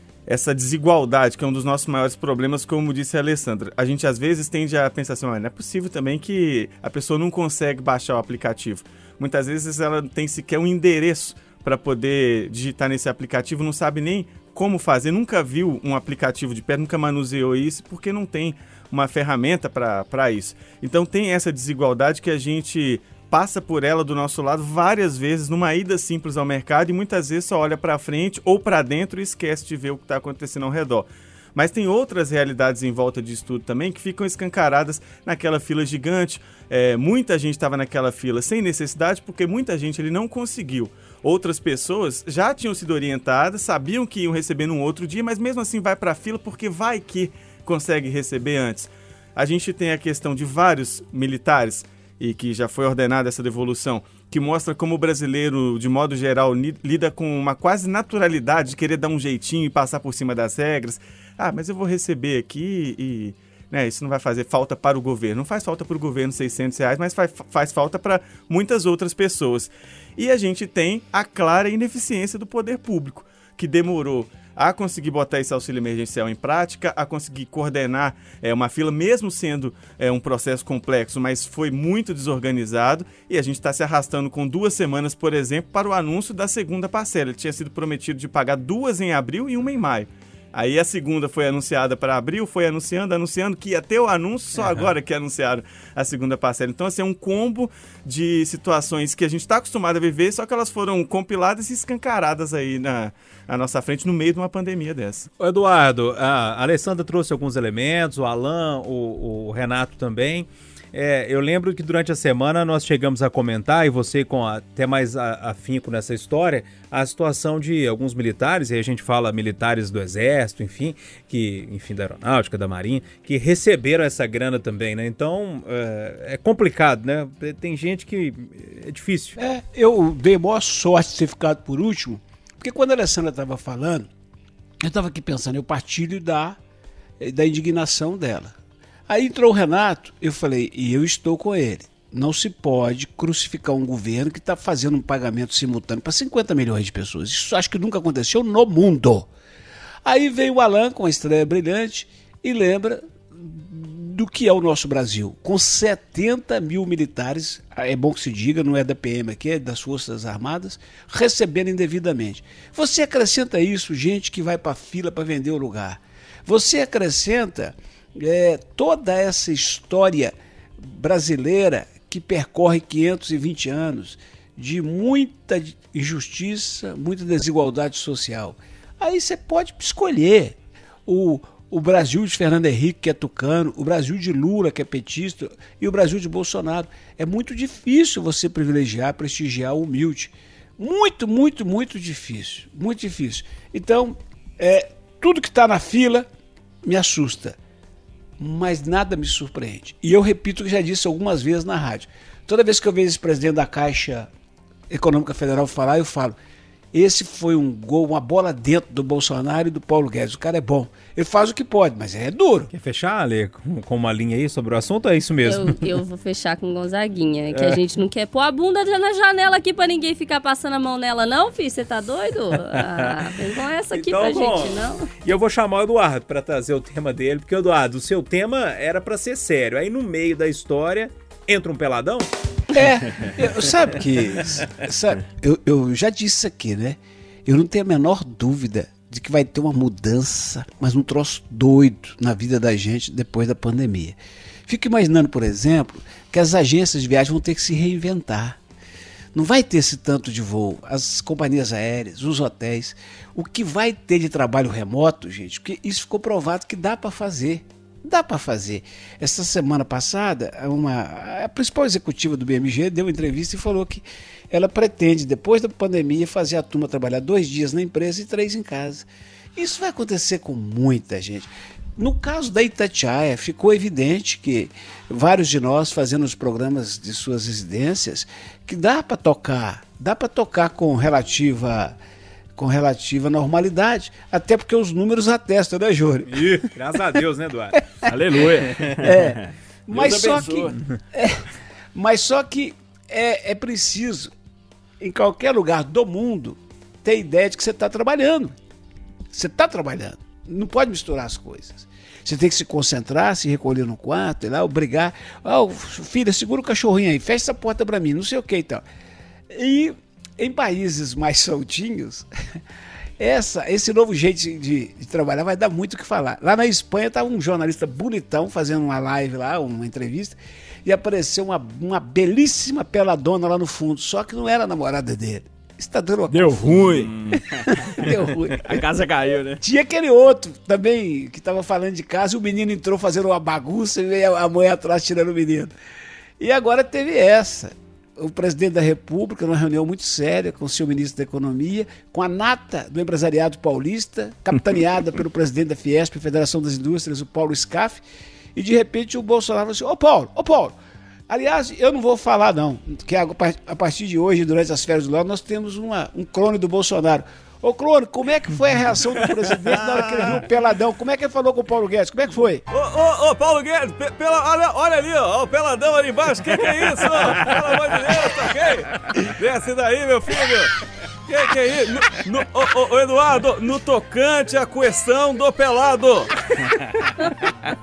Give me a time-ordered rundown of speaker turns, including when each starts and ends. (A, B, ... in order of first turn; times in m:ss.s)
0:00.3-1:45.3 A
1:45.4-2:09.4 B
2:09.4-2:14.1 C
2:14.8-2:16.6 C
2:17.2-2:18.5 C
2:19.1-2:29.3 C
2:30.0-3:16.2 C
3:16.8-3:17.6 C
3:18.4-3:24.3 C
3:24.9-3:26.3 C
3:26.9-3:32.7 C
3:32.7-3:35.9 B
3:35.4-3:45.1 D
3:37.5-3:37.8 B
3:42.7-3:43.2 B
3:43.9-3:52.3 B
3:52.7-4:08.6 C
4:09.3-4:41.9 C
4:42.6-4:46.7 C
4:46.3-4:47.8 B
4:47.8-4:48.1 C
4:48.0-4:50.8 E
4:48.6-4:48.9 B
4:49.0-4:51.4 C
4:51.9-4:54.3 C
4:55.0-4:58.5 C
4:59.3-5:08.8 C
5:09.5-5:12.3 C
5:13.2-5:28.8 C
5:26.3-5:29.6 E
5:27.0-5:27.4 B
5:29.6-5:35.7 C
5:36.4-5:48.0 C
5:48.5-5:50.8 C
5:51.3-6:02.6 C
5:59.8-6:00.3 A
6:02.7-6:10.7 A
6:11.2-6:17.0 A